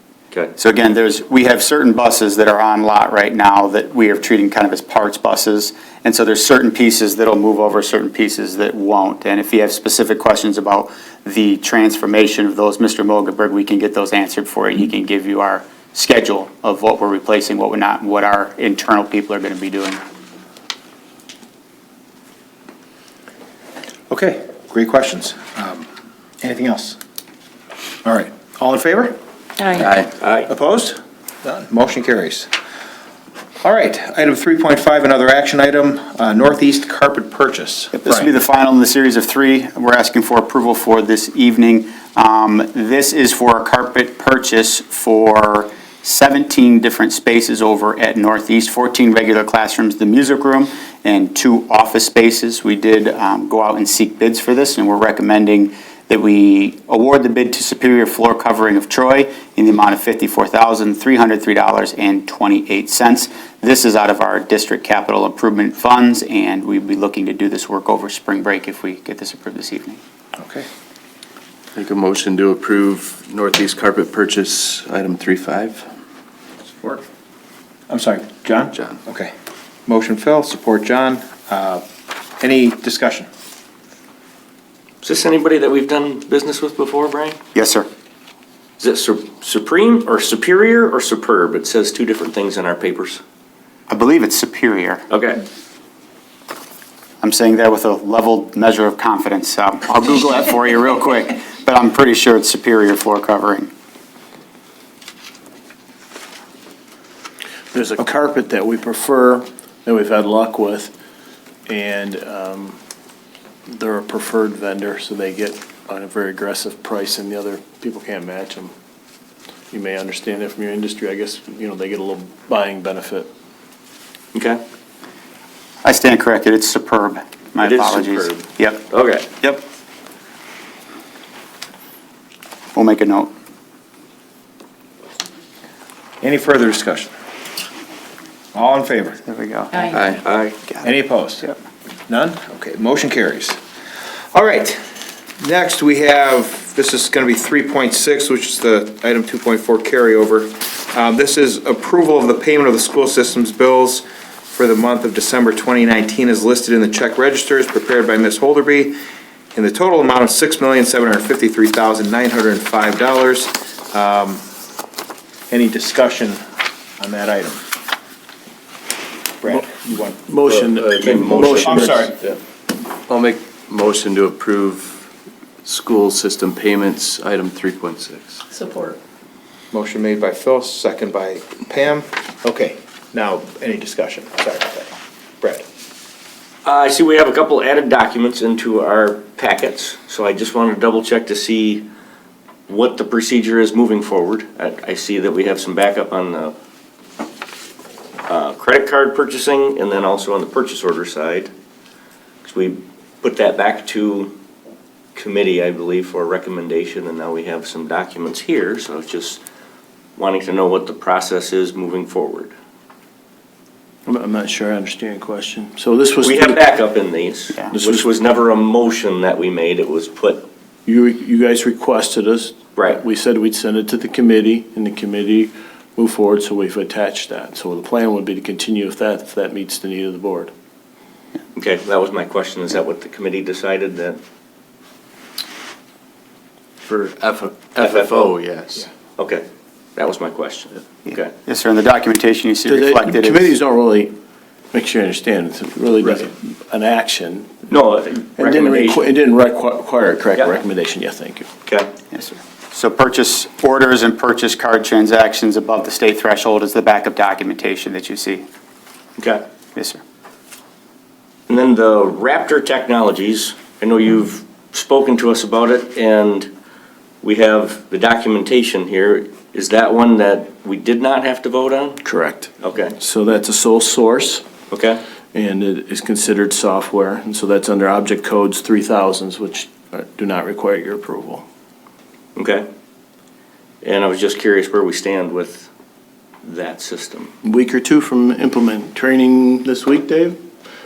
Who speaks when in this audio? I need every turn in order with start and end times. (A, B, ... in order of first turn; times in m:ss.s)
0:00.6-0:20.0 A
0:24.1-0:25.9 B
0:26.4-0:27.0 B
0:28.0-0:29.2 B
0:30.2-0:30.5 C
0:30.5-0:32.5 B
0:33.6-0:38.3 B
0:37.9-1:10.0 A
1:10.4-1:10.7 B
1:11.8-1:15.9 D
1:17.9-1:19.3 B
1:19.9-1:21.8 B
1:22.4-1:23.3 B
1:25.0-1:27.4 C
1:27.6-1:27.9 A
1:28.8-1:33.2 C
1:33.9-1:35.1 A
1:35.1-1:35.4 C
1:37.2-1:43.7 A
1:47.7-1:50.9 E
1:51.7-1:52.8 E
1:53.7-1:58.7 E
1:59.7-2:03.3 E
2:04.3-2:04.6 C
2:05.8-2:08.8 A
2:07.6-2:09.3 C
2:12.8-2:13.3 A
2:16.2-2:17.1 B
2:18.5-2:19.2 B
2:19.3-2:20.0 A
2:19.9-2:20.6 C
2:20.8-2:21.5 B
2:22.1-2:23.6 B
2:24.3-2:24.8 B
2:25.4-2:39.0 B
2:39.6-2:44.4 B
2:45.5-2:46.4 B
2:47.0-2:47.6 B
2:49.4-2:50.2 B
2:49.5-2:52.1 E
2:50.5-2:52.2 D
2:51.0-2:51.4 C
2:51.1-2:52.2 B
2:53.1-2:55.1 D
2:55.6-2:58.4 D
2:59.7-3:05.6 B
3:06.6-3:11.9 C
3:12.7-3:16.5 C
3:18.3-3:21.5 C
3:22.4-3:24.4 C
3:25.2-3:29.4 C
3:30.2-3:32.5 C
3:34.1-3:36.6 E
3:36.2-3:40.5 C
3:37.7-3:38.1 E
3:40.9-3:50.5 E
3:51.6-3:54.2 C
3:56.8-3:58.9 D
3:57.8-3:58.3 C
3:59.2-3:59.4 C
4:00.0-4:01.3 C
4:01.1-4:03.5 A
4:02.7-4:04.1 E
4:04.7-4:07.6 E
4:07.7-4:09.1 C
4:08.4-4:11.5 E
4:12.1-4:18.4 A
4:19.2-4:19.4 C
4:19.8-4:20.0 A
4:21.5-4:26.5 C
4:27.2-4:32.0 C
4:32.0-4:34.4 E
4:32.6-4:33.0 C
4:34.7-4:35.0 C
4:35.3-4:41.4 E
4:42.4-4:42.7 C
4:43.8-4:45.7 C
4:46.4-4:47.3 C
4:47.4-4:50.4 E